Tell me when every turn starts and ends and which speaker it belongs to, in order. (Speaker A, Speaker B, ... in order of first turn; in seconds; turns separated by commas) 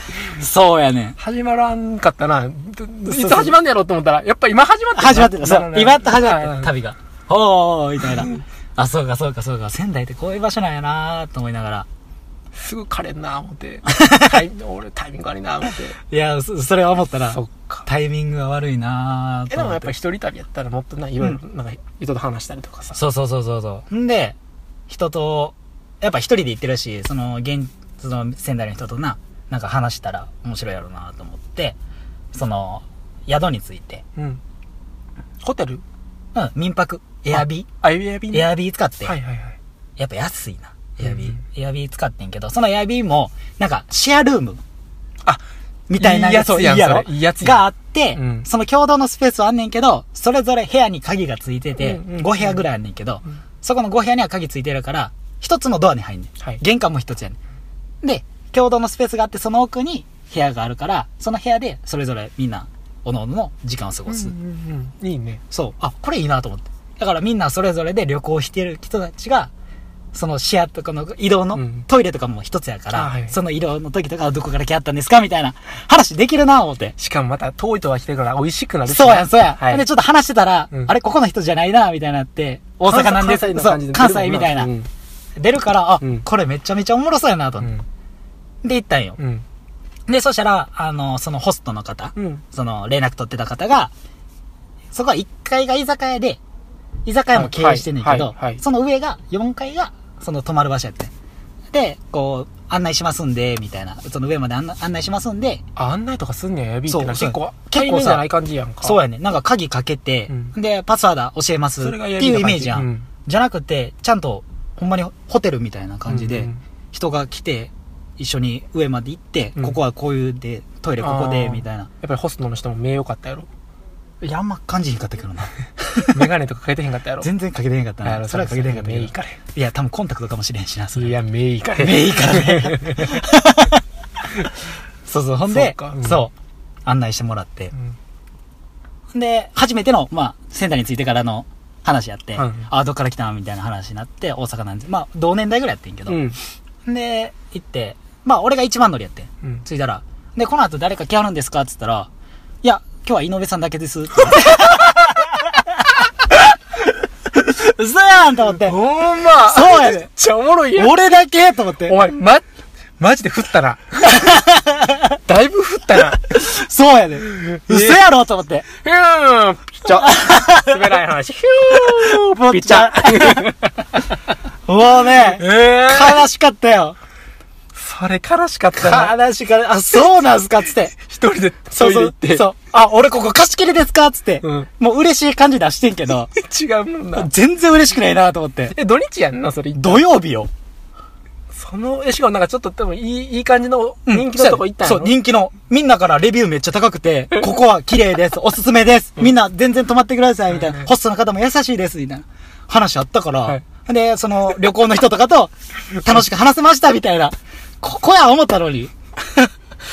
Speaker A: 0.2-1.2, Speaker B: 1.2-6.7, Speaker A: 3.1-3.5, Speaker A: 5.0-11.9, Speaker B: 12.6-16.0, Speaker A: 13.9-14.2, Speaker A: 16.0-19.9, Speaker B: 17.3-17.9, Speaker B: 19.5-23.0, Speaker A: 22.9-24.4, Speaker A: 24.9-31.8, Speaker A: 32.3-34.0, Speaker B: 34.1-34.4, Speaker B: 35.4-35.8, Speaker A: 36.3-37.7, Speaker B: 37.3-38.5, Speaker A: 38.3-39.1, Speaker B: 39.0-39.6, Speaker A: 40.0-44.6, Speaker B: 41.0-41.3, Speaker A: 45.9-57.4, Speaker B: 46.0-48.5, Speaker B: 51.8-52.6, Speaker A: 58.0-64.3, Speaker B: 64.1-65.4, Speaker A: 65.5-69.5, Speaker A: 70.1-76.9, Speaker B: 71.5-71.8, Speaker B: 72.9-73.3, Speaker B: 77.0-79.8, Speaker A: 78.8-84.7, Speaker B: 82.8-84.9, Speaker A: 85.4-87.7, Speaker B: 86.0-86.2, Speaker A: 88.6-89.2, Speaker B: 89.2-89.4, Speaker A: 90.1-93.9, Speaker B: 92.2-92.4, Speaker A: 94.9-96.4, Speaker A: 97.0-101.1, Speaker B: 97.3-98.6, Speaker A: 101.7-105.6, Speaker B: 105.8-109.0, Speaker A: 106.9-108.2, Speaker A: 108.8-121.9, Speaker B: 111.8-113.1, Speaker B: 116.1-116.6, Speaker B: 121.0-123.5, Speaker A: 124.2-126.3, Speaker B: 126.1-127.3, Speaker A: 127.2-131.1, Speaker B: 128.0-129.4, Speaker B: 130.9-133.1, Speaker A: 131.8-133.8, Speaker A: 135.1-136.3, Speaker B: 135.5-136.2, Speaker A: 136.8-137.7, Speaker A: 139.1-152.1, Speaker B: 142.4-142.7, Speaker B: 146.1-146.4, Speaker A: 152.6-155.4, Speaker A: 157.3-160.1, Speaker B: 158.6-161.0, Speaker A: 160.7-162.1, Speaker B: 161.8-162.4, Speaker B: 163.0-164.3, Speaker A: 164.2-165.0, Speaker B: 165.2-166.3, Speaker A: 166.2-168.7, Speaker B: 167.3-168.0, Speaker B: 168.8-173.7, Speaker A: 169.9-170.7, Speaker A: 171.7-173.5, Speaker A: 174.7-176.9, Speaker B: 175.3-176.2, Speaker B: 177.7-179.1, Speaker A: 178.7-180.9, Speaker B: 180.9-182.4, Speaker A: 181.8-186.3, Speaker B: 184.4-184.7, Speaker B: 186.3-187.3, Speaker A: 187.1-188.8, Speaker B: 188.7-190.0, Speaker A: 189.7-190.5, Speaker B: 191.5-195.1, Speaker A: 194.1-209.5